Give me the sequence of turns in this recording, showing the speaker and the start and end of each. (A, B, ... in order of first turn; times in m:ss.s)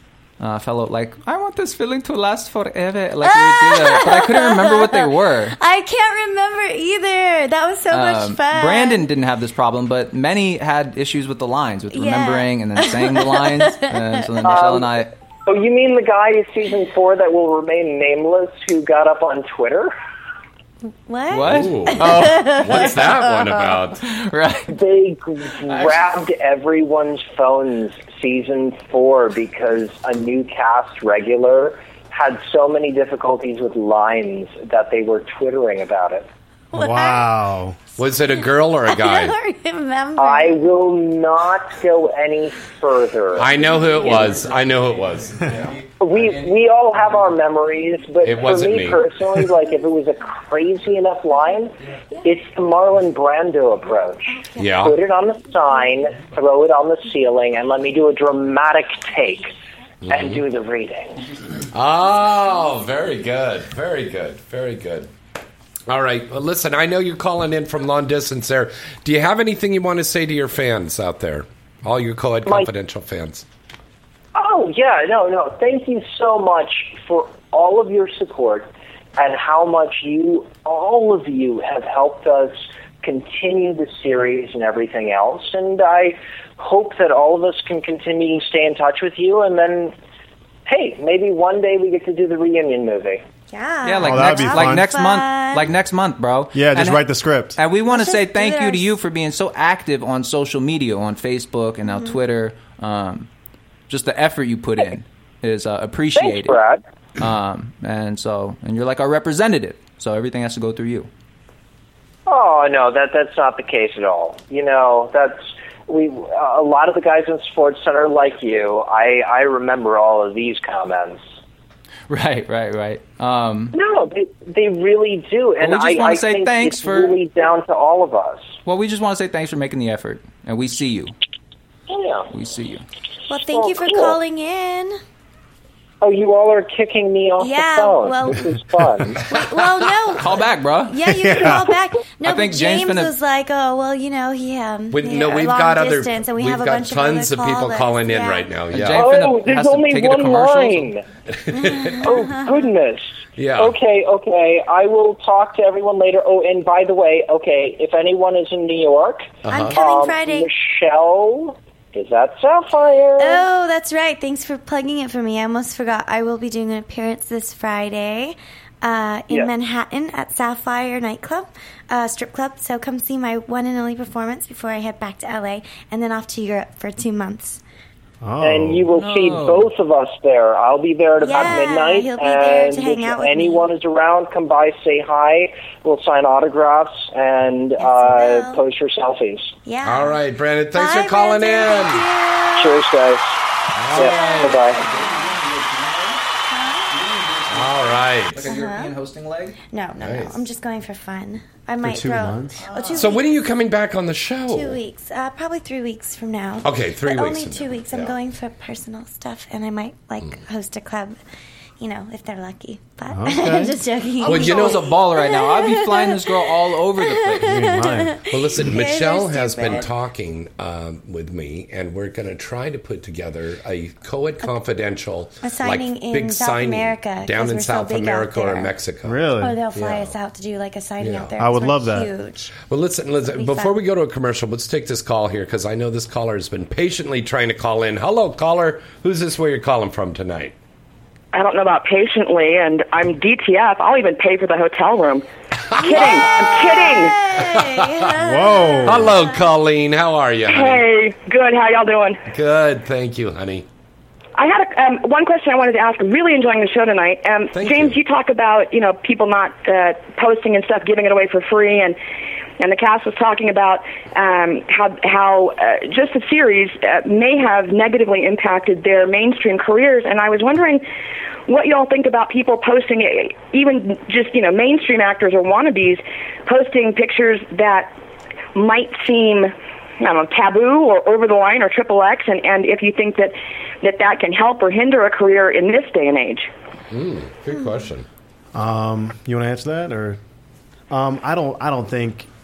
0:00.4-0:05.6 A
0:03.2-0:09.0 B
0:07.9-0:15.1 A
0:11.9-0:14.5 B
0:14.4-0:19.9 C
0:21.1-0:23.6 B
0:21.3-0:23.0 A
0:21.4-0:24.0 D
0:24.0-0:24.7 A
0:24.7-0:36.3 C
0:36.7-0:37.3 B
0:36.7-0:37.8 E
0:38.0-0:39.4 D
0:38.8-0:40.7 B
0:40.2-0:44.4 C
0:43.4-0:45.8 D
0:43.6-0:44.2 B
0:46.0-0:59.5 C
0:48.2-0:49.0 D
0:54.3-0:54.7 B
0:54.6-0:55.0 D
1:00.0-1:00.4 D
1:00.1-1:01.2 C
1:01.7-1:05.1 D
1:05.9-1:13.4 D
1:14.3-1:29.9 C
1:30.6-1:33.2 C
1:33.5-1:35.7 B
1:33.8-1:43.3 A
1:34.0-1:34.9 E
1:36.5-1:37.6 E
1:37.9-1:38.9 B
1:41.8-1:42.2 B
1:43.9-1:46.6 A
1:46.1-1:46.8 C
1:47.2-1:51.1 A
1:52.3-2:01.2 C
2:02.1-2:03.7 A
2:03.7-2:08.5 C
2:05.6-2:07.2 A
2:08.6-2:11.1 A
2:11.9-2:12.3 C
2:12.3-2:12.8 A
2:13.3-2:15.0 B
2:13.5-2:14.2 C
2:16.0-2:19.2 C
2:17.4-2:18.5 B
2:19.2-2:28.5 B
2:20.2-2:21.0 A
2:21.0-2:21.7 E
2:22.2-2:23.1 A
2:24.9-2:29.1 D
2:28.7-2:30.9 A
2:28.9-2:31.0 C
2:31.4-2:32.1 D
2:31.5-2:32.5 B
2:32.0-2:43.4 C
2:33.4-2:33.8 D
2:39.4-2:39.8 D
2:39.5-2:40.5 B
2:43.2-2:57.6 B
2:58.2-2:58.9 E
2:58.4-3:09.5 C
2:58.9-2:59.7 A
3:01.2-3:03.7 B
3:07.8-3:08.6 B
3:09.6-3:10.2 B
3:09.8-3:12.0 D
3:10.7-3:12.8 B
3:12.5-3:13.4 C
3:13.7-3:14.5 D
3:13.9-3:14.8 C
3:14.0-3:15.2 B
3:14.0-3:16.2 A
3:16.5-3:16.9 B
3:16.9-3:19.6 A
3:17.5-3:18.5 D
3:18.4-3:18.9 B
3:19.7-3:23.2 B
3:20.0-3:20.4 D
3:21.8-3:22.6 E
3:22.9-3:24.8 D
3:24.5-3:31.2 B
3:26.6-3:28.1 D
3:31.8-3:36.4 B
3:33.1-3:33.8 E
3:34.2-3:37.7 A
3:34.2-3:34.8 D
3:37.1-3:39.9 B
3:37.4-3:38.2 E
3:38.3-3:49.2 D
3:45.4-3:48.7 B
3:49.0-3:49.6 E
3:49.4-3:52.5 B
3:49.7-3:50.1 D
3:51.0-3:51.3 D
3:51.4-3:52.1 E
3:52.7-4:00.5 D
3:53.3-3:53.8 B
4:01.3-4:05.2 F
4:05.7-4:06.8 D
4:05.7-4:09.4 B
4:05.8-4:07.2 F
4:07.3-4:08.1 D
4:08.2-4:09.2 E
4:08.8-4:10.8 D
4:10.5-4:12.2 F
4:12.3-4:13.6 D
4:14.4-4:22.0 F
4:17.5-4:18.0 D
4:22.6-4:30.8 F
4:31.5-4:37.9 F
4:38.5-4:46.5 F
4:46.9-4:48.0 D
4:48.5-4:50.2 E
4:50.9-4:52.3 E